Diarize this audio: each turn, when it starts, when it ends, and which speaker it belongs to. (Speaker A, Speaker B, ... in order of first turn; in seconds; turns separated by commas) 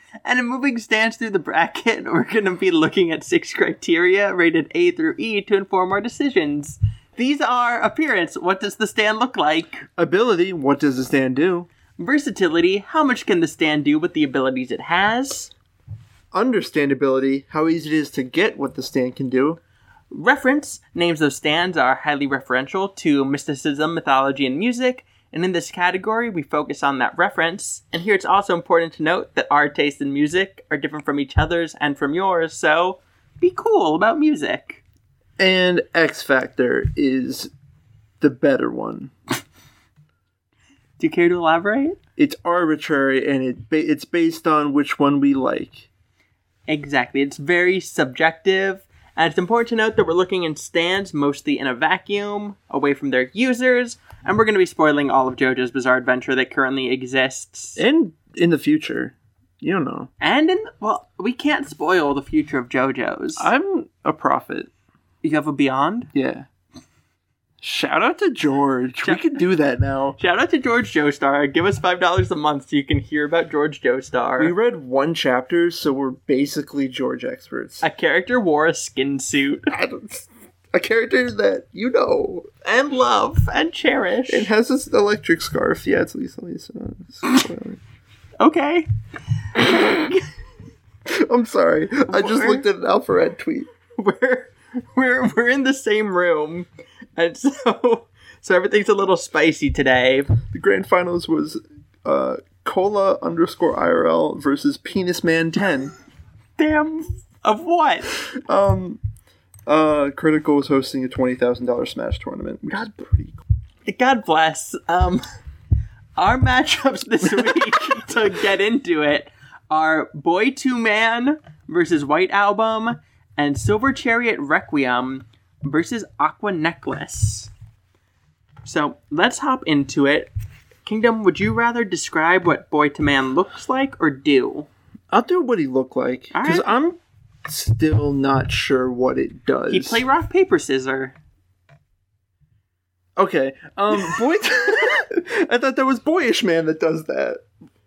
Speaker A: 0.2-9.9, Speaker B: 10.0-11.7, Speaker A: 12.0-15.5, Speaker B: 16.3-19.6, Speaker A: 20.1-34.8, Speaker B: 35.4-37.5, Speaker B: 38.2-39.1, Speaker A: 41.0-42.0, Speaker B: 42.2-45.9, Speaker A: 46.7-57.8, Speaker B: 57.8-60.1, Speaker A: 60.2-63.5, Speaker B: 63.4-64.7, Speaker A: 65.2-66.1, Speaker B: 66.1-66.5, Speaker B: 67.6-70.2, Speaker A: 69.0-69.4, Speaker A: 70.2-74.5, Speaker B: 74.4-77.8, Speaker A: 77.8-79.7, Speaker B: 79.7-82.5, Speaker A: 82.6-84.5, Speaker B: 84.3-87.8, Speaker A: 88.4-88.9, Speaker A: 89.5-90.2, Speaker B: 91.0-93.7, Speaker A: 92.1-92.6, Speaker A: 94.0-100.3, Speaker B: 100.5-105.9, Speaker A: 106.6-108.1, Speaker B: 108.2-109.0, Speaker B: 109.7-113.4, Speaker A: 113.8-115.2, Speaker A: 116.2-127.5, Speaker B: 117.2-118.1, Speaker A: 128.6-130.3, Speaker A: 130.8-134.7, Speaker B: 135.1-140.0, Speaker A: 136.3-136.7, Speaker A: 139.7-141.1, Speaker B: 143.2-147.4